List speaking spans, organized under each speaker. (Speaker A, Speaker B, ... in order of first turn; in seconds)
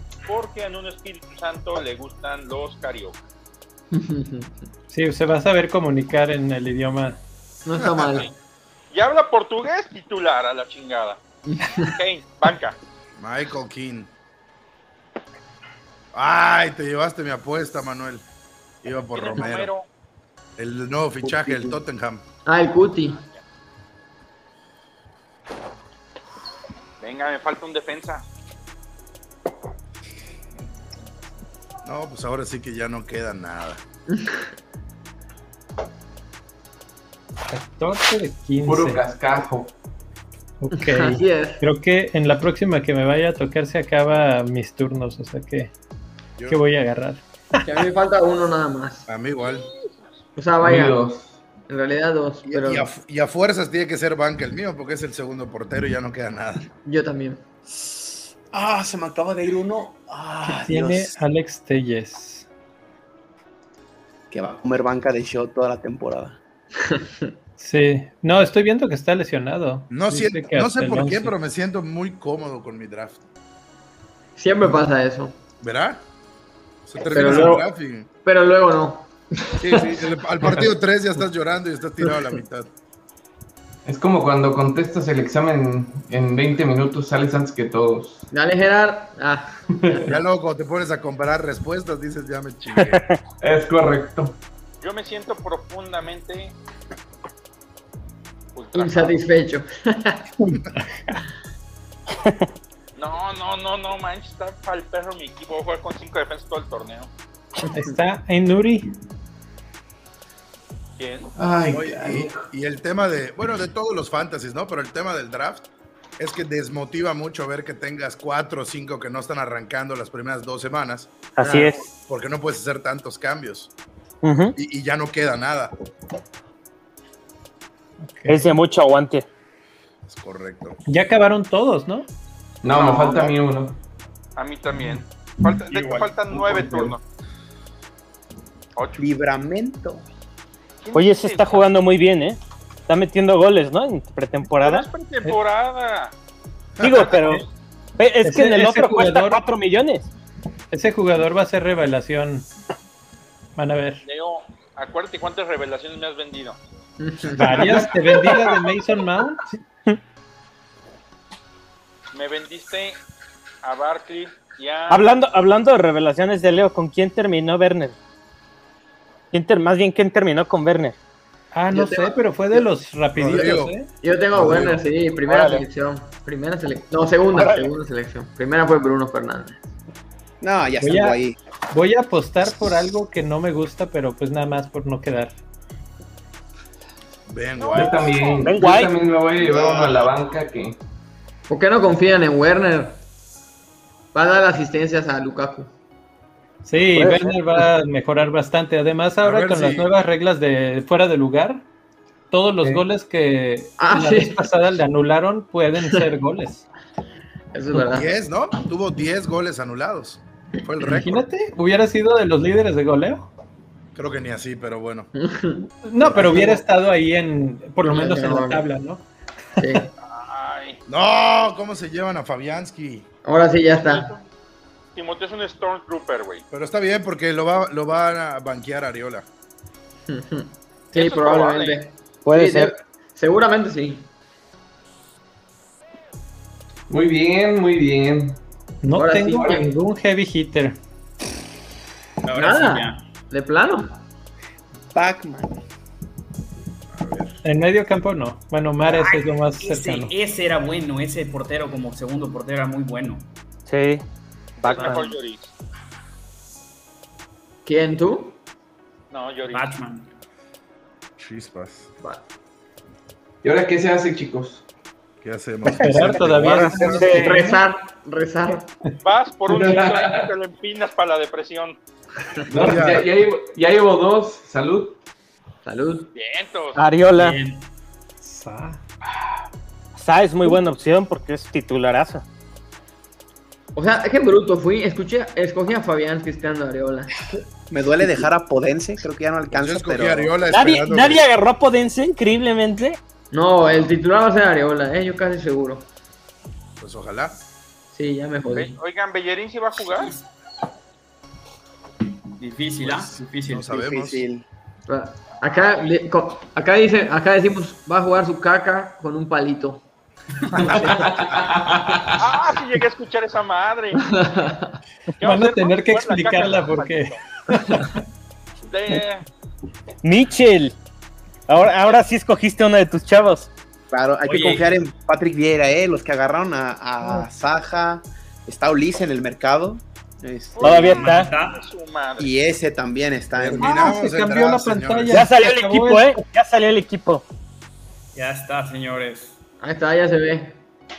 Speaker A: 0.3-3.2, 8.9-11.2, 11.8-12.8, 19.1-19.9, 27.0-28.2, 94.8-96.5, 98.5-99.1, 103.0-107.1, 111.0-111.3, 132.7-133.3, 134.4-137.0, 138.8-139.0, 140.8-141.7, 144.6-146.1, 154.1-156.6, 162.1-163.0, 163.6-165.1, 187.6-188.5, 220.0-220.8, 223.7-224.2, 225.0-226.4, 230.9-231.8, 254.6-255.5, 259.1-259.7, 269.0-271.8, 276.1-276.8, 298.5-300.1, 312.2-314.0, 315.2-317.2, 318.7-319.2, 330.6-332.3
Speaker B: 3.9-4.5, 7.7-8.3, 11.5-11.9, 22.4-23.2, 34.1-34.4, 40.7-41.6, 47.6-49.1, 50.4-51.0, 51.7-52.9, 56.8-57.4, 66.8-67.3, 74.4-75.4, 77.0-77.7, 78.2-80.1, 88.3-90.0, 98.7-100.3, 157.0-157.7, 171.7-172.7, 173.3-179.6, 191.5-193.0, 194.1-195.7, 203.8-204.4, 207.5-208.1, 215.2-216.6, 217.8-218.7, 219.6-219.9, 223.2-224.1, 230.1-234.1, 238.9-239.7, 242.3-244.0, 257.6-258.4, 267.2-268.7, 275.6-276.1, 283.8-287.1, 293.3-295.9, 297.9-298.8, 304.9-309.8, 310.5-311.3, 314.0-314.8, 339.6-340.6
Speaker C: 4.9-7.2, 37.5-39.0, 40.6-45.7, 46.5-47.6, 60.4-62.5, 67.6-71.3, 100.5-101.2, 107.7-108.9, 128.0-128.5, 130.9-132.1, 148.2-149.4, 150.7-152.5, 153.6-154.0, 157.4-159.5, 171.5-173.9, 180.8-181.2, 181.7-185.3, 196.6-201.6, 202.3-206.7, 210.8-213.3, 215.8-219.1, 238.8-240.8, 247.4-250.1, 265.7-267.6, 278.2-278.8, 315.2-317.9, 333.5-336.2
Speaker D: 13.2-14.1, 16.1-18.2, 18.8-19.7, 20.6-22.2, 31.9-33.8, 49.1-49.7, 52.5-56.7, 69.9-73.2, 75.6-76.0, 76.9-78.1, 79.6-82.7, 90.1-93.1, 111.7-115.7, 116.2-121.3, 121.9-123.7, 124.6-125.7, 130.1-130.8, 146.8-147.1, 173.2-174.8, 187.3-188.2, 199.2-199.9, 207.9-211.3, 213.9-215.1, 216.0-216.5, 220.9-223.1, 226.5-229.3, 246.9-247.4, 261.2-261.9, 265.2-267.4, 272.5-273.1, 289.5-291.2, 296.8-297.4, 302.9-304.2, 333.4-335.3
Speaker E: 21.2-21.8, 58.5-61.2, 64.3-66.4, 139.0-140.0, 180.4-181.4, 189.4-190.1, 244.9-245.6, 287.7-290.4, 303.7-304.4, 323.9-331.1, 332.2-333.9
Speaker F: 38.6-39.7, 50.6-51.4, 83.9-88.3, 89.8-90.0, 93.4-94.4, 111.4-112.5, 132.6-133.8, 135.8-136.9, 187.7-190.8, 236.9-238.4, 263.4-264.6, 269.5-270.3, 272.5-275.0, 310.8-312.2
Speaker G: 92.9-93.2, 121.4-121.9, 124.2-124.6, 128.3-129.3, 140.9-144.9, 146.8-147.4, 148.0-150.1, 164.9-167.9, 169.3-170.9, 175.3-175.7, 177.3-177.7, 188.4-188.9, 197.0-197.4, 232.2-232.7, 253.7-254.0, 254.6-255.1, 266.4-267.3, 276.8-277.4, 280.0-282.2, 290.5-293.0, 320.0-320.8, 321.5-323.5, 330.6-331.3, 335.1-337.2
Speaker H: 242.2-243.0, 248.8-253.3, 254.7-255.0, 259.5-260.1, 277.2-277.7, 299.9-300.2, 302.4-303.8, 324.2-324.8, 330.7-331.6, 338.1-339.4